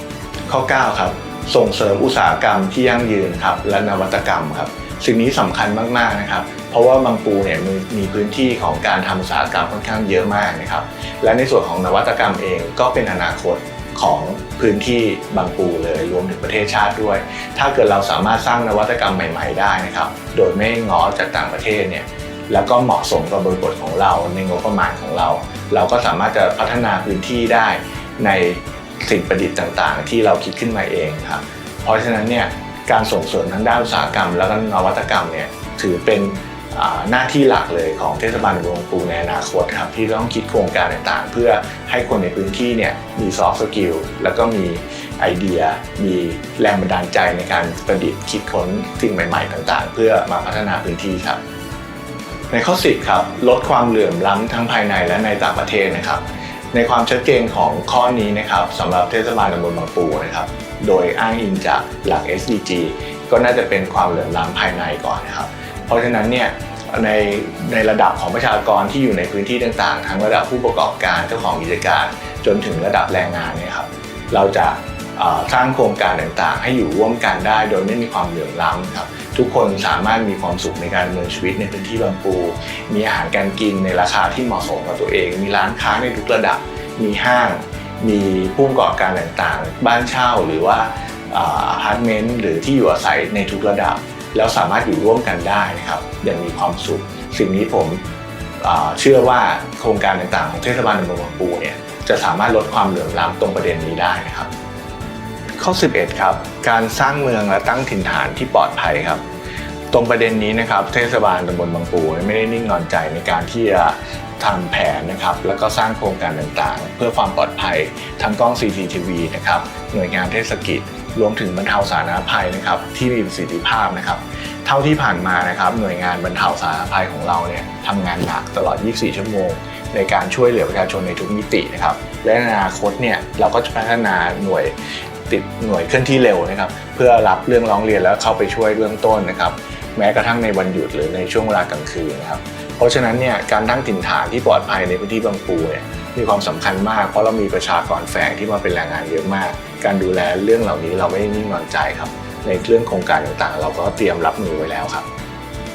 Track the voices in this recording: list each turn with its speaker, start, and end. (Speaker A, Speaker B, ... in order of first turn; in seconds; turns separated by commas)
Speaker A: 0.5-51.4, Speaker A: 52.5-56.2, Speaker A: 56.7-98.0, Speaker A: 98.6-104.5, Speaker A: 105.6-109.2, Speaker A: 109.9-134.8, Speaker A: 135.3-155.1